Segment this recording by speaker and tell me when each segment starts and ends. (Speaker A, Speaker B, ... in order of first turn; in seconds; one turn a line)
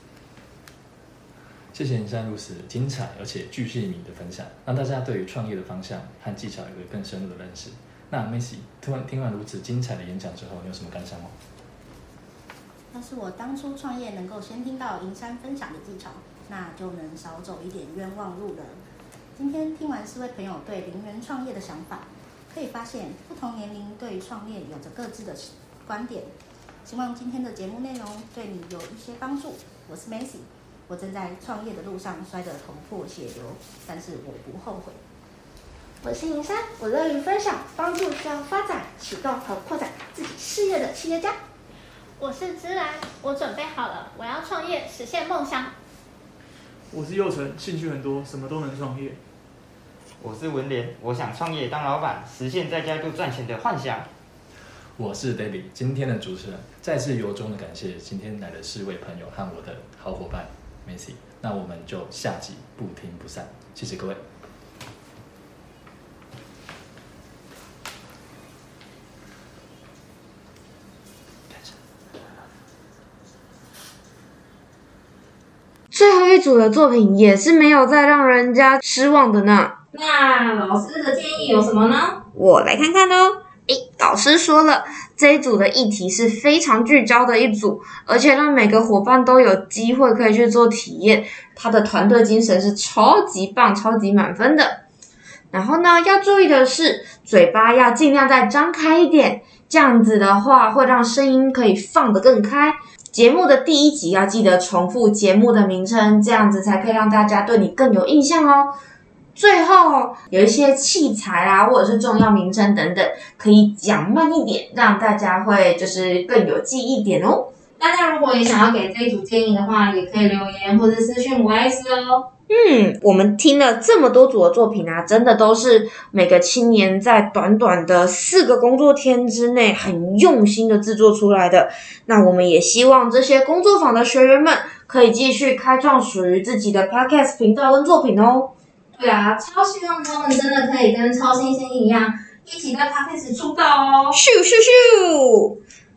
Speaker A: 1.7-11.3
Speaker B: 12.9-18.8
Speaker B: 19.4-26.3
Speaker B: 26.8-35.0
Speaker C: 36.0-41.4
Speaker D: 42.2-45.7
Speaker E: 46.9-49.2
Speaker F: 50.2-54.1
Speaker A: 55.0-64.2
Speaker G: 75.9-79.7
Speaker H: 79.9-82.2
Speaker G: 82.3-94.8
Speaker G: 95.5-108.7
Speaker G: 109.3-117.5
Speaker H: 117.8-122.3
Speaker G: 122.5-138.5
Speaker H: 138.9-144.2
Speaker G: 144.1-145.6